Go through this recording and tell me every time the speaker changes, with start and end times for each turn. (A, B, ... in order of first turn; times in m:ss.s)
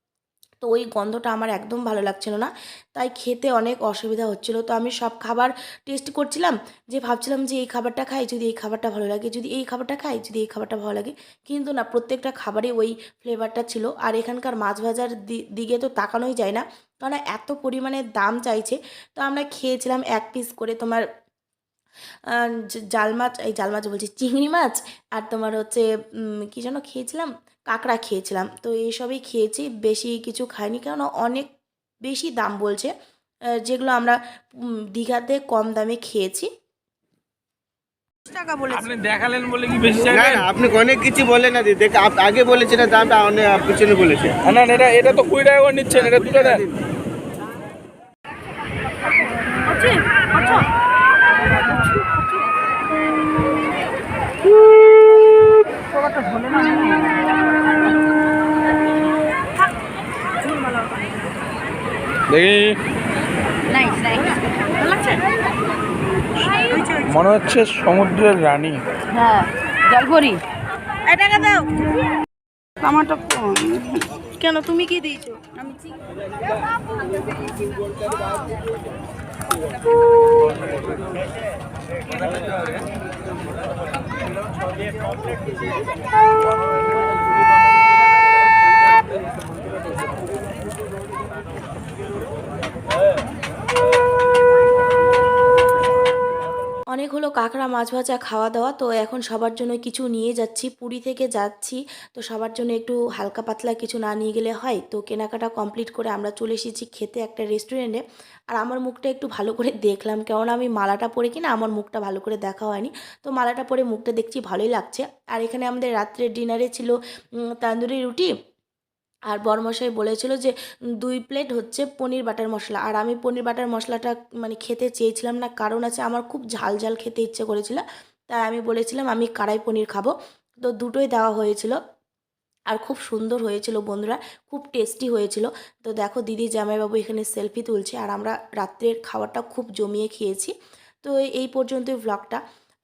0:00.6-0:21.0 A
0:22.3-0:31.5 A
0:32.1-0:32.9 A
0:33.6-0:34.2 A
0:34.9-0:36.5 A
0:38.3-0:38.8 B
0:38.7-0:40.8 C
0:40.5-0:44.3 D
0:44.2-0:46.7 C
0:49.6-0:50.7 B
0:51.6-0:52.2 B
1:00.5-1:00.9 B
1:02.3-1:02.8 C
1:03.7-1:05.2 B
1:06.4-1:08.8 C
1:06.7-1:07.1 B
1:09.1-1:10.4 B
1:11.1-1:11.7 B
1:12.8-1:15.9 B
1:37.0-1:48.0 A
1:48.5-1:57.0 A
1:57.5-1:58.3 A
1:59.3-2:10.2 A
2:10.7-2:11.8 A
2:12.7-2:22.4 A